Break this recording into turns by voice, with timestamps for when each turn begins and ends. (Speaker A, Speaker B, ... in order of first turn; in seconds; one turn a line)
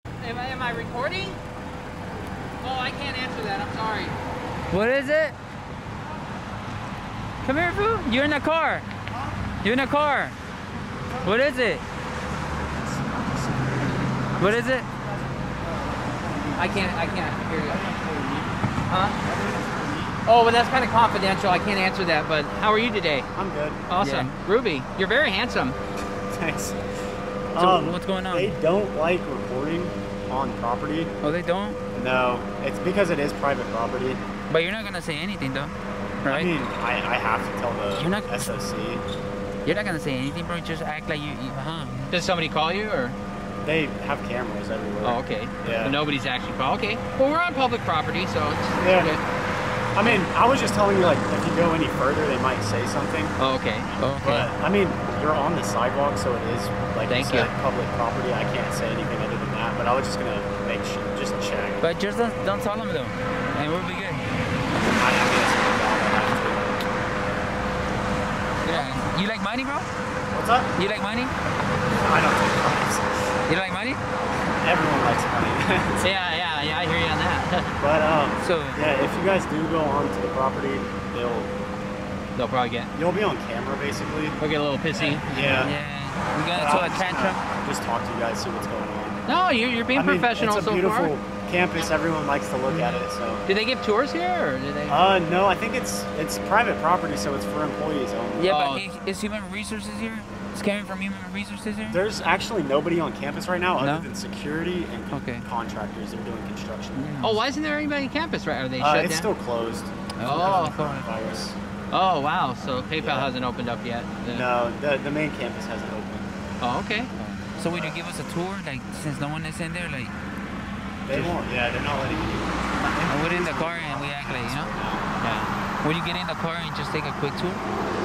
Speaker A: 0.2-1.4
Speaker A: 2.6-4.1
Speaker B: 4.7-5.4
Speaker B: 7.4-8.8
Speaker B: 9.6-10.3
Speaker B: 11.2-11.8
Speaker C: 12.7-14.6
Speaker B: 14.0-14.9
Speaker C: 15.8-16.9
Speaker A: 16.6-17.9
Speaker C: 17.7-18.5
Speaker A: 18.9-19.1
Speaker C: 19.2-20.1
Speaker A: 20.2-23.3
Speaker C: 23.3-23.8
Speaker A: 23.9-25.8
Speaker B: 24.0-24.3
Speaker C: 26.3-26.8
Speaker C: 27.5-31.1
Speaker B: 27.6-28.6
Speaker B: 31.2-31.8
Speaker C: 31.9-34.2
Speaker B: 34.5-36.5
Speaker C: 36.2-39.0
Speaker B: 37.9-38.6
Speaker B: 39.6-42.1
Speaker A: 42.1-43.2
Speaker C: 43.6-46.0
Speaker A: 45.0-49.2
Speaker C: 48.8-49.1
Speaker C: 49.9-53.4
Speaker A: 53.4-53.9
Speaker B: 54.0-54.5
Speaker C: 54.2-61.8
Speaker A: 57.0-57.5
Speaker B: 61.8-64.2
Speaker C: 64.7-66.8
Speaker B: 68.6-69.9
Speaker A: 68.7-69.0
Speaker C: 70.3-70.7
Speaker B: 70.8-71.3
Speaker C: 72.0-73.1
Speaker B: 73.5-74.0
Speaker C: 74.6-76.1
Speaker A: 76.0-77.7
Speaker C: 77.8-81.5
Speaker B: 78.4-78.8
Speaker A: 82.3-82.9
Speaker C: 82.9-84.4
Speaker A: 84.4-85.6
Speaker C: 84.9-85.7
Speaker B: 85.6-87.4
Speaker C: 86.5-89.2
Speaker A: 89.3-91.1
Speaker C: 89.9-93.4
Speaker B: 92.7-93.0
Speaker A: 93.5-95.0
Speaker C: 94.9-98.5
Speaker B: 98.4-102.0
Speaker A: 98.5-98.8
Speaker C: 101.9-107.3
Speaker B: 103.8-104.1
Speaker B: 105.1-105.5
Speaker B: 106.9-107.4
Speaker A: 107.2-109.3
Speaker C: 108.8-111.6
Speaker B: 110.2-111.1
Speaker A: 110.2-110.7
Speaker A: 111.9-114.5
Speaker C: 113.0-113.3
Speaker C: 114.2-116.3
Speaker A: 116.6-117.1
Speaker B: 117.2-120.1
Speaker C: 117.6-118.0
Speaker C: 121.0-125.1
Speaker B: 123.1-124.7
Speaker A: 125.2-125.5
Speaker B: 125.8-127.6